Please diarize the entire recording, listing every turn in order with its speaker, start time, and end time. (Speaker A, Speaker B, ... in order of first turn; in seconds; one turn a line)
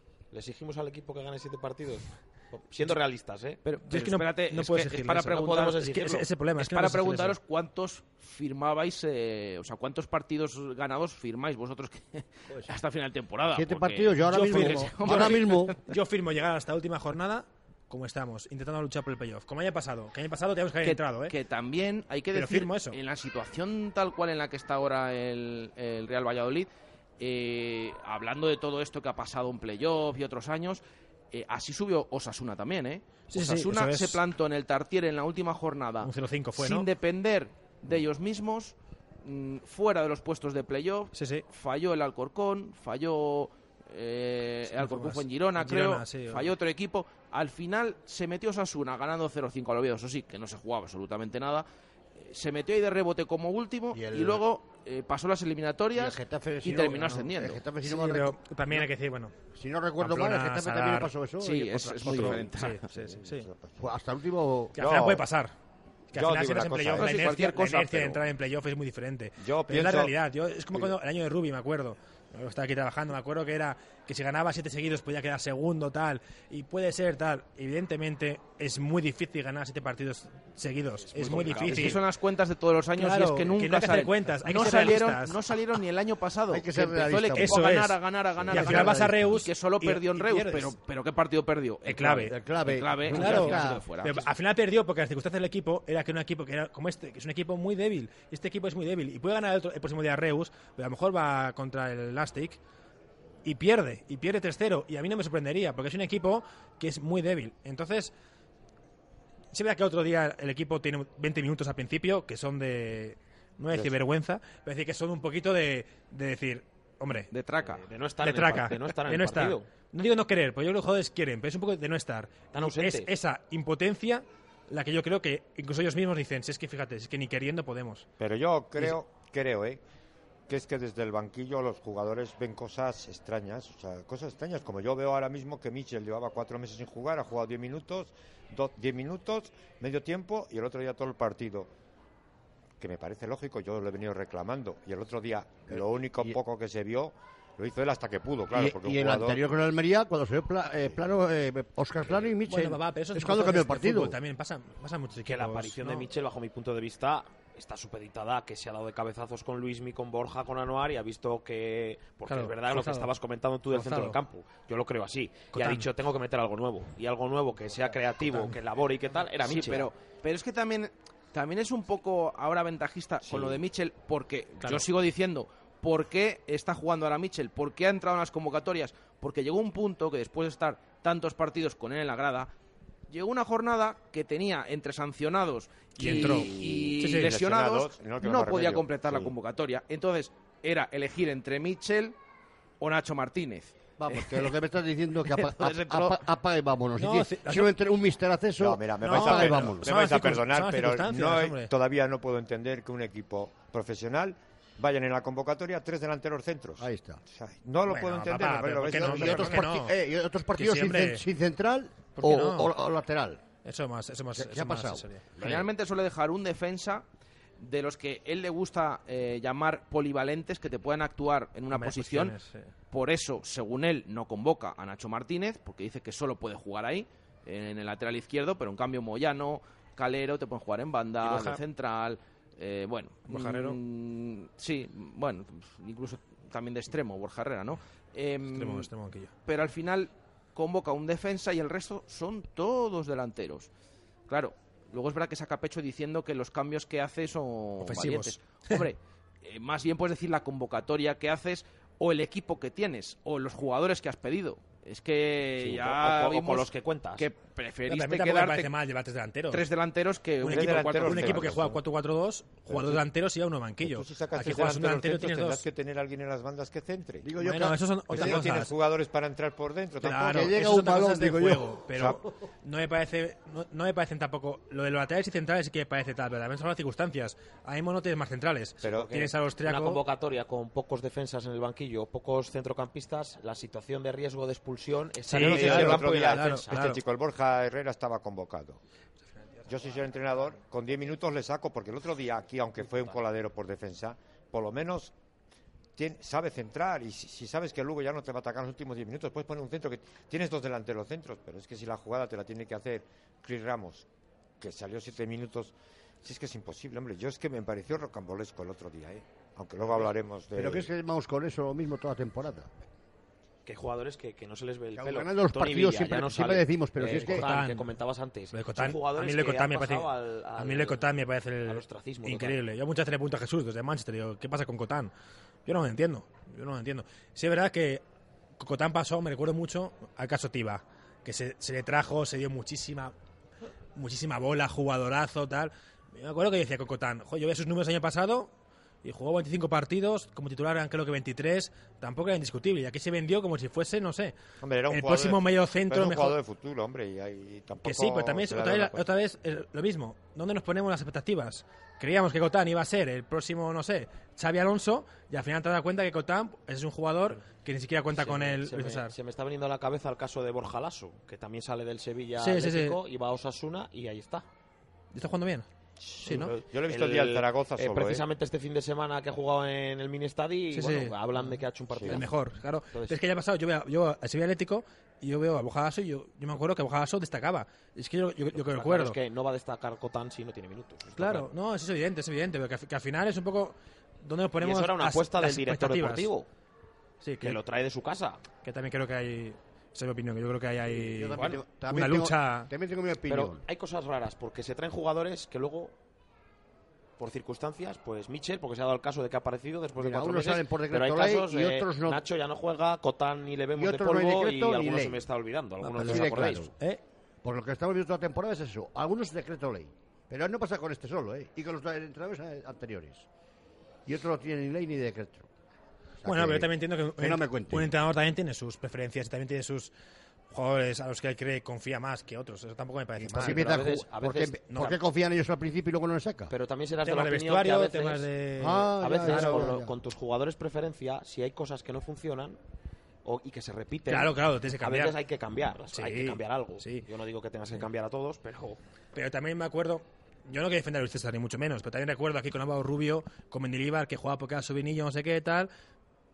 Speaker A: 0.3-3.6
Speaker B: 3.6-15.9
Speaker C: 3.8-7.4
Speaker A: 5.3-6.2
Speaker D: 12.5-12.8
Speaker D: 13.5-15.7
Speaker C: 14.2-21.3
Speaker B: 20.8-26.7
Speaker C: 22.3-23.0
Speaker B: 27.2-51.6
Speaker C: 33.3-34.2
Speaker C: 36.0-36.9
Speaker C: 41.1-41.4
Speaker C: 44.7-46.5
Speaker B: 52.2-57.6
Speaker D: 53.9-54.4
Speaker D: 55.9-58.9
Speaker C: 56.7-57.2
Speaker C: 57.8-59.3
Speaker D: 59.5-61.7
Speaker C: 60.0-63.5
Speaker B: 61.4-62.8
Speaker E: 62.1-63.9
Speaker D: 63.8-64.7
Speaker E: 64.7-65.3
Speaker C: 64.7-65.5
Speaker C: 66.1-82.0
Speaker E: 66.1-67.2
Speaker B: 66.9-68.2
Speaker E: 69.4-70.2
Speaker E: 70.7-71.0
Speaker B: 81.1-94.3
Speaker D: 81.7-82.0
Speaker C: 83.0-85.4
Speaker D: 86.5-87.7
Speaker C: 87.3-90.7
Speaker D: 88.5-89.2
Speaker C: 91.8-92.3
Speaker D: 92.3-93.8
Speaker C: 93.1-102.6
Speaker C: 103.4-108.1
Speaker C: 109.5-117.3
Speaker B: 117.3-117.8
Speaker A: 117.7-119.7
Speaker C: 118.2-128.1
Speaker A: 122.5-123.1
Speaker E: 128.2-129.8
Speaker E: 130.5-141.7
Speaker E: 142.8-149.4
Speaker D: 145.7-146.4
Speaker D: 148.5-154.1
Speaker C: 152.5-156.1
Speaker A: 155.2-169.9
Speaker C: 162.3-163.1
Speaker C: 163.7-164.2
Speaker C: 165.5-165.9
Speaker B: 169.4-182.5
Speaker A: 173.2-173.6
Speaker C: 174.6-174.8
Speaker B: 183.1-192.1
Speaker C: 185.9-187.3
Speaker E: 186.6-189.3
Speaker B: 192.8-194.5
Speaker D: 194.0-199.9
Speaker B: 195.3-196.2
Speaker C: 197.0-197.7
Speaker E: 198.6-209.8
Speaker C: 199.0-201.7
Speaker D: 206.8-207.2
Speaker C: 207.9-209.9
Speaker D: 208.8-213.4
Speaker C: 210.6-211.2
Speaker C: 212.2-212.7
Speaker C: 213.6-215.2
Speaker D: 214.3-215.7
Speaker B: 215.4-217.0
Speaker B: 217.6-222.3
Speaker C: 221.7-222.7
Speaker B: 222.9-238.9
Speaker C: 231.2-231.6
Speaker C: 233.3-233.8
Speaker C: 238.5-239.3
Speaker B: 239.4-243.7
Speaker B: 244.3-258.7
Speaker C: 247.8-248.9
Speaker A: 255.6-257.3
Speaker C: 257.9-259.6
Speaker B: 259.5-261.6
Speaker C: 260.4-265.6
Speaker E: 260.4-261.8
Speaker E: 262.7-263.0
Speaker E: 263.8-267.3
Speaker D: 267.2-268.4
Speaker C: 267.4-268.7
Speaker E: 268.1-270.6
Speaker C: 270.0-280.0
Speaker D: 270.2-271.9
Speaker E: 271.9-272.2
Speaker E: 278.8-279.1
Speaker A: 278.8-287.0
Speaker C: 285.3-287.0
Speaker E: 285.3-288.8
Speaker E: 289.7-295.1
Speaker E: 295.9-304.1
Speaker E: 304.6-310.9
Speaker D: 310.6-312.7
Speaker A: 313.6-322.6
Speaker D: 314.9-317.4
Speaker C: 317.1-317.9
Speaker C: 318.5-325.1
Speaker C: 325.6-328.0
Speaker C: 328.6-333.1
Speaker C: 333.9-338.5
Speaker C: 339.0-344.3
Speaker E: 344.6-349.1
Speaker C: 344.9-346.4
Speaker C: 347.8-359.1
Speaker A: 358.1-364.4
Speaker C: 362.4-362.9
Speaker C: 365.1-365.6
Speaker E: 366.0-368.2
Speaker A: 366.2-372.4
Speaker C: 370.7-371.1
Speaker E: 371.9-372.2
Speaker C: 372.0-379.2
Speaker A: 372.9-373.2
Speaker A: 378.5-381.5
Speaker C: 381.1-386.3
Speaker A: 384.6-386.5
Speaker C: 387.2-387.6
Speaker A: 387.4-388.4
Speaker C: 388.6-392.7
Speaker D: 390.9-393.6
Speaker A: 393.3-395.9
Speaker A: 397.2-406.7
Speaker D: 400.0-402.2
Speaker D: 403.8-405.2
Speaker D: 405.8-406.7
Speaker C: 406.0-407.0
Speaker D: 407.4-413.2
Speaker D: 414.1-415.5
Speaker D: 416.2-417.9
Speaker C: 416.2-419.9
Speaker C: 420.5-423.7
Speaker D: 423.2-426.5
Speaker A: 423.4-425.0
Speaker C: 424.7-425.0
Speaker A: 426.5-428.3
Speaker C: 427.0-429.7
Speaker D: 428.6-429.9
Speaker A: 429.0-432.6
Speaker A: 433.2-438.8
Speaker C: 434.1-435.1
Speaker C: 435.9-437.0
Speaker C: 439.1-445.7